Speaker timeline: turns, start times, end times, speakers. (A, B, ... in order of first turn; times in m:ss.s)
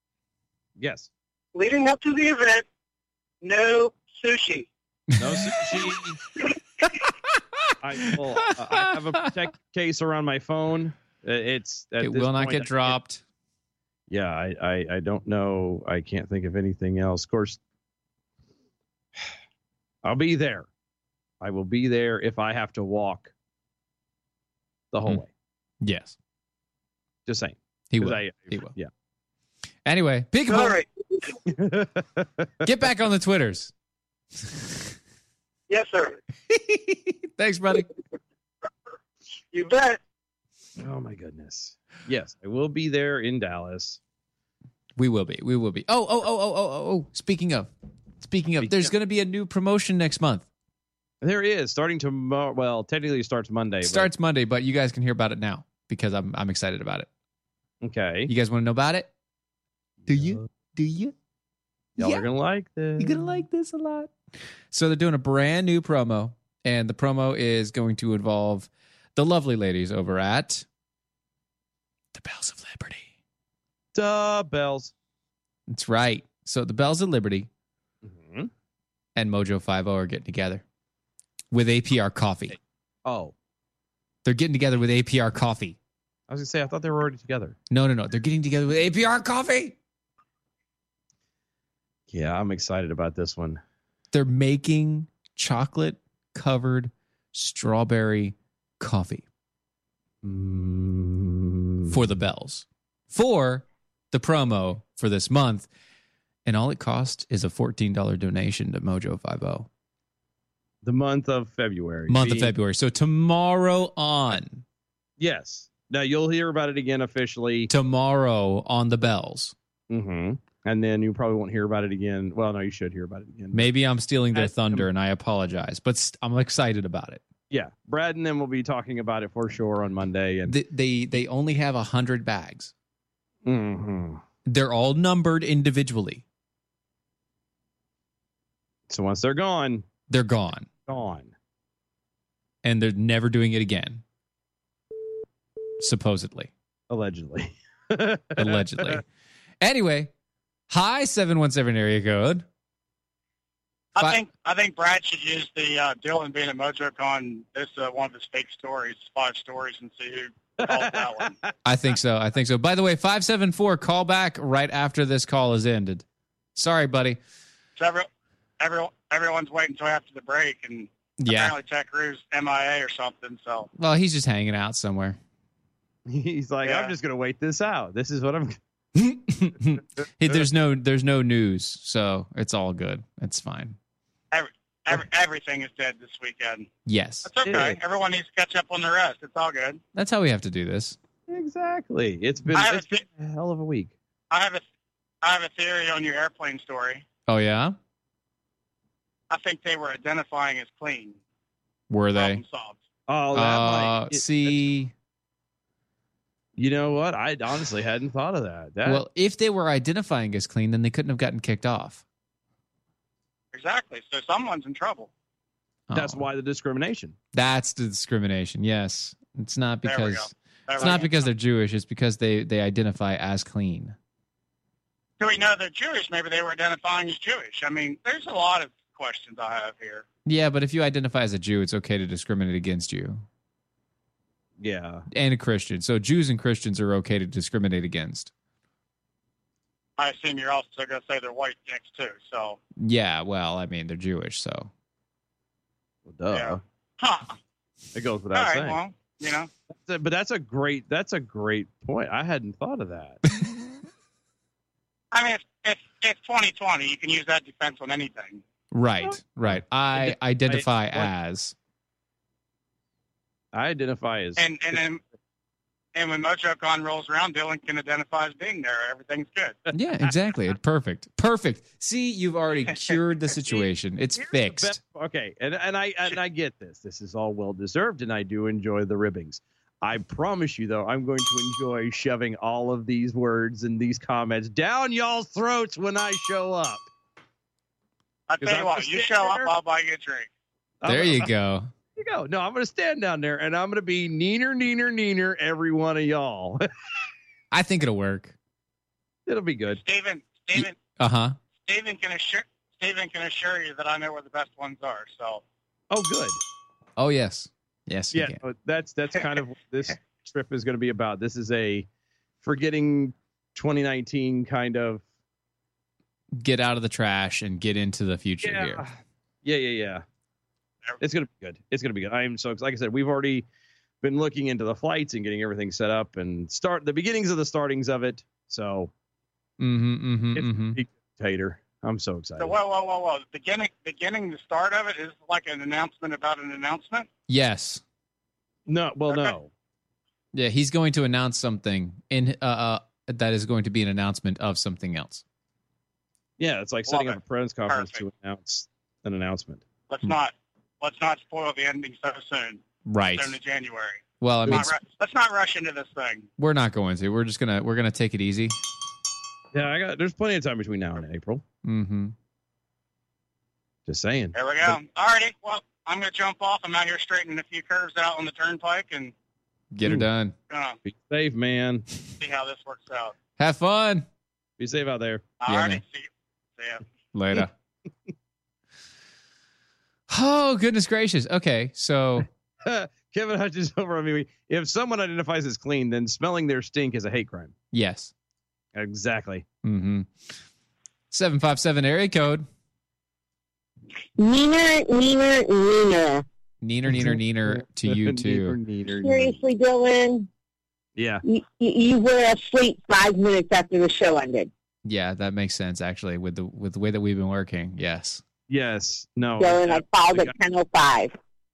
0:00.8-0:01.1 A
0:01.5-0:02.6 B
0:03.4-0:04.7 B
0:05.2-0:05.7 C
0:05.2-0:06.2 A
0:07.8-0:13.0 A
0:08.7-0:09.3 C
0:12.0-0:13.2 C
0:14.1-0:17.6 A
0:20.0-0:20.7 A
0:21.4-0:23.3 A
0:24.9-0:25.3 A
0:25.8-0:26.2 C
0:27.3-0:28.9 A
0:27.9-0:28.7 C
0:29.8-0:30.8 C
0:30.4-0:31.4 B
0:31.5-0:32.7 A
0:32.6-0:33.7 C
0:35.7-0:36.2 B
0:36.5-0:37.9 C
0:39.5-0:40.0 B
0:40.8-0:44.0 A
0:45.0-0:47.7 C
0:48.2-0:50.5 C
0:48.6-0:48.9 A
0:51.2-0:54.1 A
0:53.8-0:57.1 C
0:57.8-0:58.3 A
0:58.3-0:59.1 C
1:00.0-1:00.5 A
1:00.1-1:01.1 C
1:02.0-1:03.3 A
1:02.0-1:02.3 C
1:03.0-1:04.1 C
1:04.7-1:10.6 C
1:12.1-1:13.1 C
1:13.9-1:14.9 A
1:15.7-1:17.5 C
1:18.0-1:18.5 A
1:19.2-1:20.6 C
1:21.5-1:22.6 C
1:23.0-1:23.3 A
1:24.2-1:25.8 C
1:26.3-1:27.6 A
1:27.7-1:29.8 C
1:32.1-1:33.6 A
1:34.1-1:39.2 C
1:40.2-1:42.0 A
1:41.9-1:45.7 C
1:46.4-1:49.7 C
1:50.8-1:52.5 A
1:52.1-1:54.6 C
1:55.2-1:57.7 A
1:57.7-1:59.5 C
1:59.9-2:03.7 A
2:03.5-2:07.2 C
2:04.3-2:04.9 A
2:07.5-2:10.6 A
2:10.5-2:12.7 C
2:13.4-2:14.2 A
2:14.5-2:16.2 C
2:18.9-2:19.9 A
2:20.1-2:20.7 C
2:20.9-2:21.3 A
2:22.6-2:24.0 C
2:25.8-2:26.5 C
2:26.9-2:29.0 A
2:28.4-2:29.0 C
2:29.6-2:30.1 C
2:30.7-2:32.4 C
2:34.0-2:41.3 D
2:34.0-2:34.2 C
2:40.6-2:41.5 A
2:41.6-2:46.0 C
2:46.6-2:47.2 C
2:47.8-2:48.1 D
2:48.6-2:53.7 D
2:51.2-2:51.6 C
2:53.8-2:55.2 C
2:56.1-2:58.6 A
2:56.6-2:56.9 D
2:59.0-3:03.8 C
3:04.3-3:06.7 D
3:06.9-3:07.3 C
3:07.2-3:09.8 D
3:07.4-3:07.8 A
3:09.9-3:11.0 C
3:11.3-3:13.9 A
3:12.5-3:13.0 D
3:14.3-3:14.6 D
3:15.2-3:17.0 D
3:17.3-3:17.8 C
3:19.3-3:21.2 D
3:21.9-3:22.4 C
3:22.1-3:22.8 D
3:23.1-3:24.6 A
3:23.3-3:24.9 C
3:26.6-3:29.0 A
3:28.8-3:32.0 C
3:33.5-3:35.1 D
3:35.9-3:36.2 C
3:35.9-3:37.2 A
3:37.3-3:44.0 C
3:39.8-3:41.3 D
3:45.2-3:50.1 D
3:50.2-3:53.2 C
3:54.6-3:55.0 A
3:55.1-3:58.3 C
4:00.0-4:02.6 D
4:02.8-4:04.7 C
4:06.1-4:06.6 A
4:06.3-4:07.4 D
4:08.0-4:08.8 A
4:08.3-4:09.5 D
4:09.7-4:13.2 A
4:15.1-4:18.4 D
4:18.7-4:21.5 C
4:19.0-4:21.1 A
4:23.5-4:24.8 A
4:24.4-4:25.0 D
4:26.0-4:29.6 D
4:29.7-4:34.8 C
4:32.7-4:33.0 D
4:34.2-4:46.8 A
4:48.3-4:50.3 D
4:48.4-4:49.5 A
4:50.8-4:51.3 A
4:50.9-4:51.7 C
4:52.0-4:56.6 A
4:57.5-4:58.4 C
4:59.3-4:59.8 A
4:59.8-5:00.8 D
5:00.6-5:01.4 C
5:01.6-5:05.4 D
5:05.9-5:06.4 A
5:07.0-5:08.4 C
5:08.1-5:11.9 A
5:12.4-5:15.0 A
5:16.3-5:18.8 C
5:18.4-5:20.0 A
5:21.0-5:23.4 A
5:24.0-5:28.9 A
5:29.6-5:30.8 C
5:30.3-5:32.6 A
5:32.4-5:37.1 D
5:37.3-5:37.8 C
5:38.7-5:39.5 A
5:39.1-5:39.4 D
5:40.3-5:45.2 C
5:46.4-5:49.7 A
5:46.9-5:48.0 D
5:49.9-5:56.3 D
5:52.9-5:53.4 C
5:54.2-5:54.8 C
5:56.4-5:58.6 C
5:59.5-6:01.4 A
6:01.6-6:02.1 C
6:03.9-6:04.8 A
6:04.3-6:09.1 D
6:09.7-6:10.3 C
6:10.5-6:10.8 D
6:10.8-6:11.8 A
6:12.2-6:13.2 D
6:13.4-6:14.1 C
6:14.6-6:15.3 A
6:15.4-6:16.8 D
6:15.5-6:15.8 C
6:17.1-6:17.5 C
6:20.1-6:22.3 C
6:22.6-6:27.5 A
6:27.7-6:28.1 C
6:28.8-6:29.4 A
6:29.6-6:30.3 C
6:31.1-6:32.5 C
6:34.2-6:36.2 E
6:36.6-6:38.6 C
6:36.9-6:39.4 A
6:38.9-6:40.3 E
6:41.0-6:41.2 A
6:41.2-6:44.5 E
6:44.8-6:48.2 C
6:48.5-6:50.4 A
6:49.4-6:51.2 E